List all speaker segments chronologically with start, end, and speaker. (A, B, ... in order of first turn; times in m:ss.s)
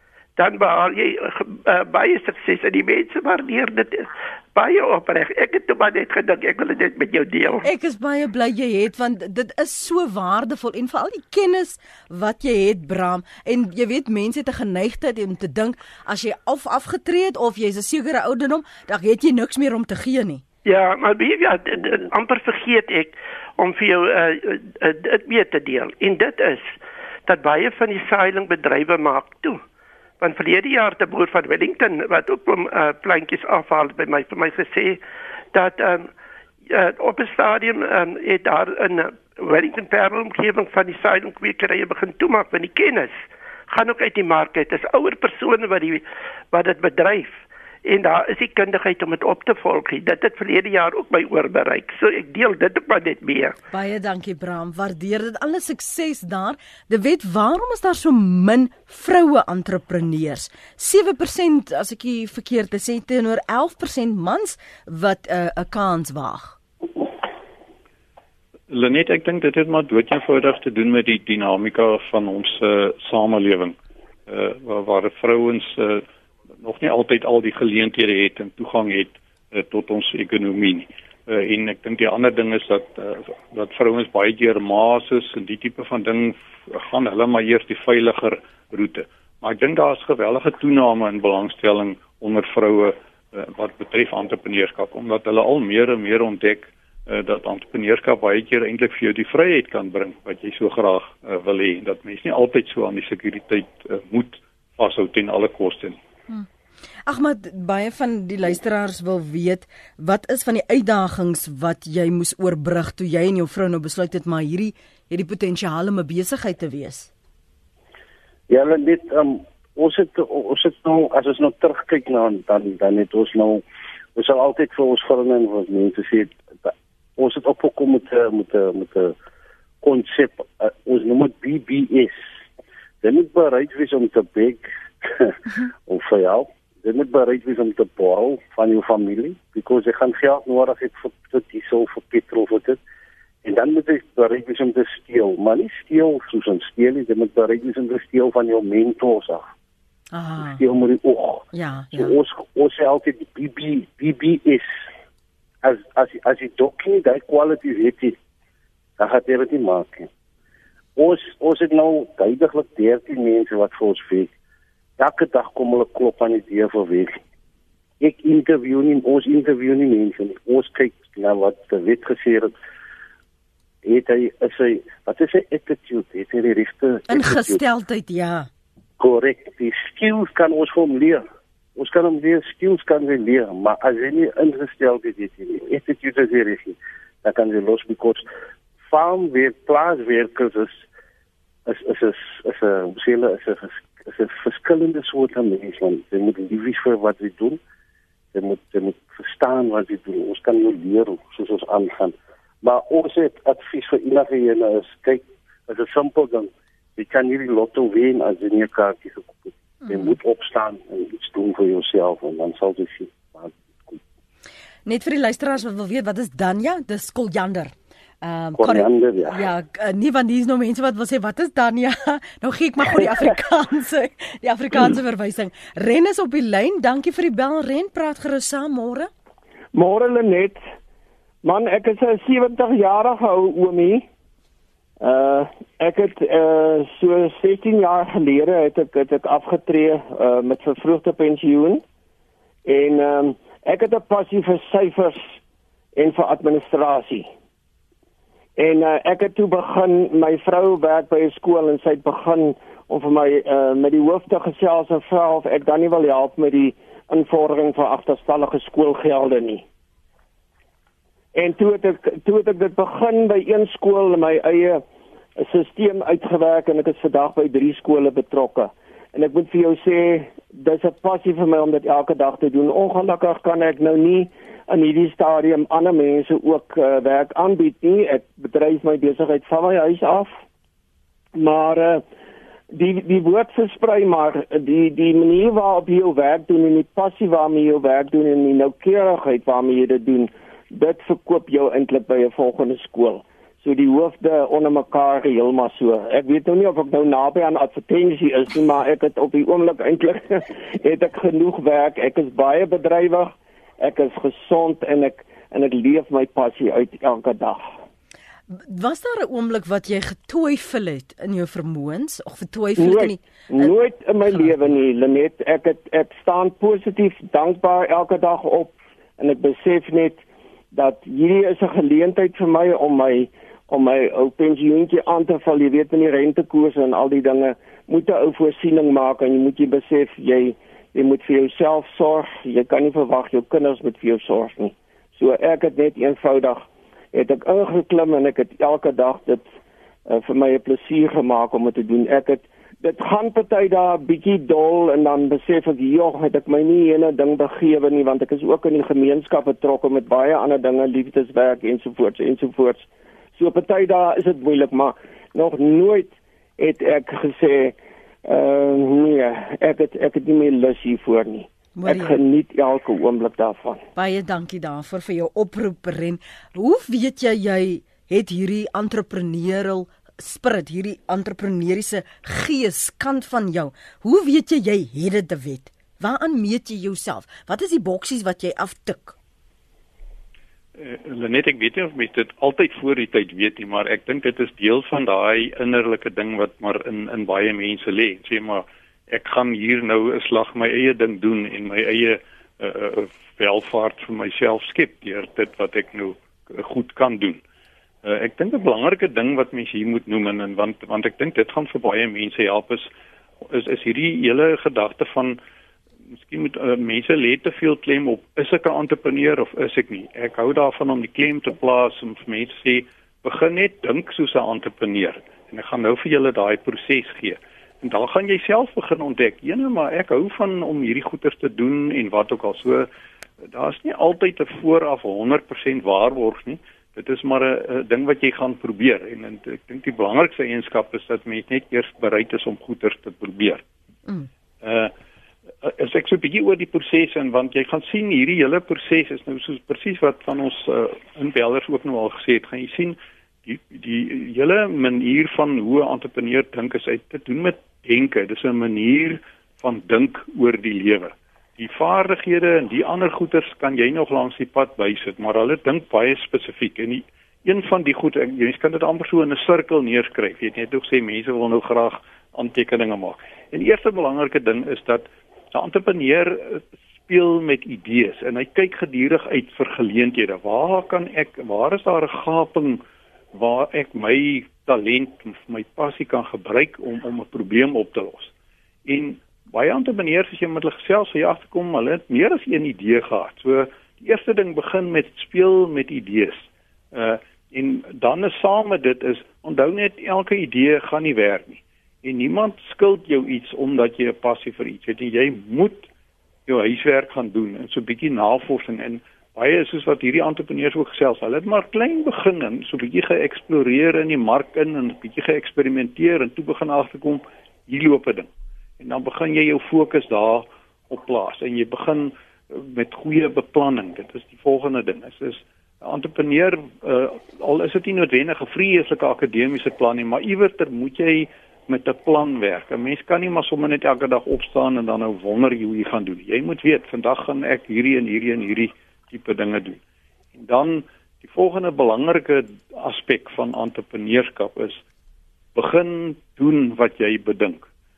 0:00.4-0:07.7 A
0:07.6-0:20.4 B
0:20.6-0:29.6 A
0:30.2-0:35.0 A
0:35.5-0:36.1 A
0:36.7-0:53.6 A
0:53.7-1:06.6 B
1:08.7-1:13.8 C
1:14.3-1:16.0 C
1:16.6-1:46.0 C
1:47.1-1:57.1 B
1:58.5-2:03.6 D
2:04.1-2:09.1 D
2:09.8-2:12.2 D
2:13.0-2:22.8 D
2:23.4-2:29.5 D
2:30.1-2:30.6 B
2:30.4-2:34.9 D
2:31.5-2:32.2 B
2:35.6-2:38.2 D
2:39.0-2:40.1 D
2:41.0-2:44.3 D
2:45.0-2:47.2 D
2:48.0-2:52.5 D
2:53.8-2:57.6 D
2:57.1-2:58.5 B
2:59.0-3:01.2 D
3:01.8-3:08.2 D
3:08.9-3:10.9 D
3:11.6-3:17.6 D
3:18.3-3:34.0 D
3:34.9-3:49.1 B
3:38.6-3:39.4 D
3:49.7-3:50.6 E
3:51.4-3:54.0 E
3:55.0-4:01.8 E
4:02.6-4:05.2 E
4:05.9-4:07.3 E
4:08.6-4:19.6 E
4:21.3-4:24.8 E
4:25.4-4:40.3 E
4:41.4-4:42.0 E
4:42.7-5:07.6 E
5:08.5-5:13.7 B
5:12.8-5:39.5 E
5:14.2-5:14.5 B
5:40.1-6:03.8 E
6:01.7-6:02.2 B
6:04.0-6:19.2 B
6:20.8-6:37.4 C
6:38.0-6:42.9 C
6:43.5-6:45.4 C
6:46.2-7:02.9 C
7:03.5-7:13.6 C
7:14.6-7:14.9 C
7:15.6-7:52.8 C
7:53.3-7:58.3 C
7:58.9-8:15.9 C
8:16.5-8:28.3 C
8:28.8-8:49.8 C
8:50.3-8:54.8 C
8:55.6-8:57.7 C